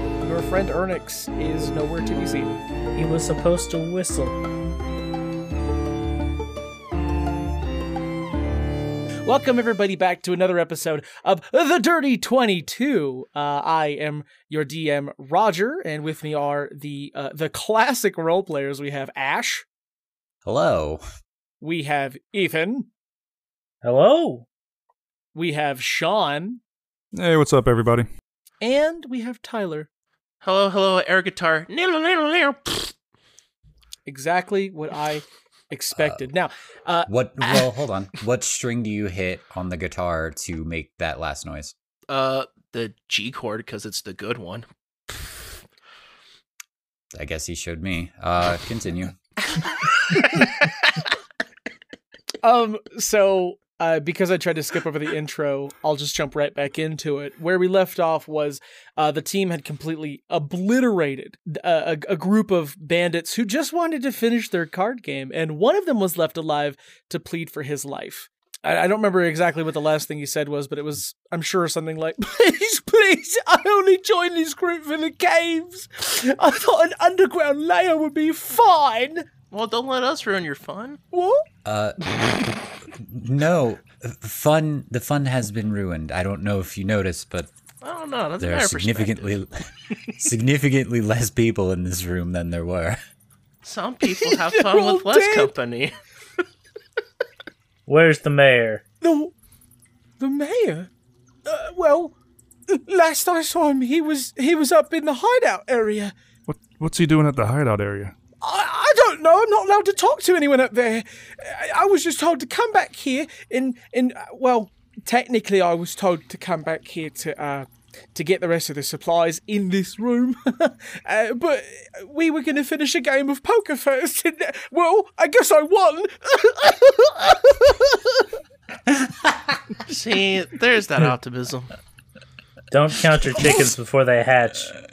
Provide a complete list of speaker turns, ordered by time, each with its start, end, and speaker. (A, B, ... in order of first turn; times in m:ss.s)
0:00.2-0:02.6 A
0:02.9-0:04.4 B
0:09.2-0:19.6 A
0:20.4-0:21.0 C
0:21.6-0:22.9 A
0:23.8-0:24.4 B
0:25.3-0:26.6 A
0:27.1-0:28.1 D
0:28.6-0:29.9 A
0:30.4-0:32.9 E
0:34.0-0:37.6 A
0:35.9-0:36.3 C
0:37.1-0:41.7 C
0:42.1-0:45.4 E
0:47.1-0:49.2 C
0:50.1-0:50.5 E
0:52.4-1:19.3 A
1:19.5-1:21.0 E
1:21.1-1:21.4 A
1:21.6-1:27.5 C
1:27.8-1:29.3 E
1:28.4-1:29.5 C
1:30.1-1:33.0 C
1:33.6-1:35.9 E
1:34.0-1:35.5 A
1:37.9-1:38.8 B
1:39.0-1:39.3 A
1:40.2-1:40.9 A
1:41.4-1:42.1 A
1:42.7-1:46.1 A
1:46.5-1:48.1 D
1:48.4-2:08.2 A
2:09.8-2:11.7 E
2:12.7-2:14.8 B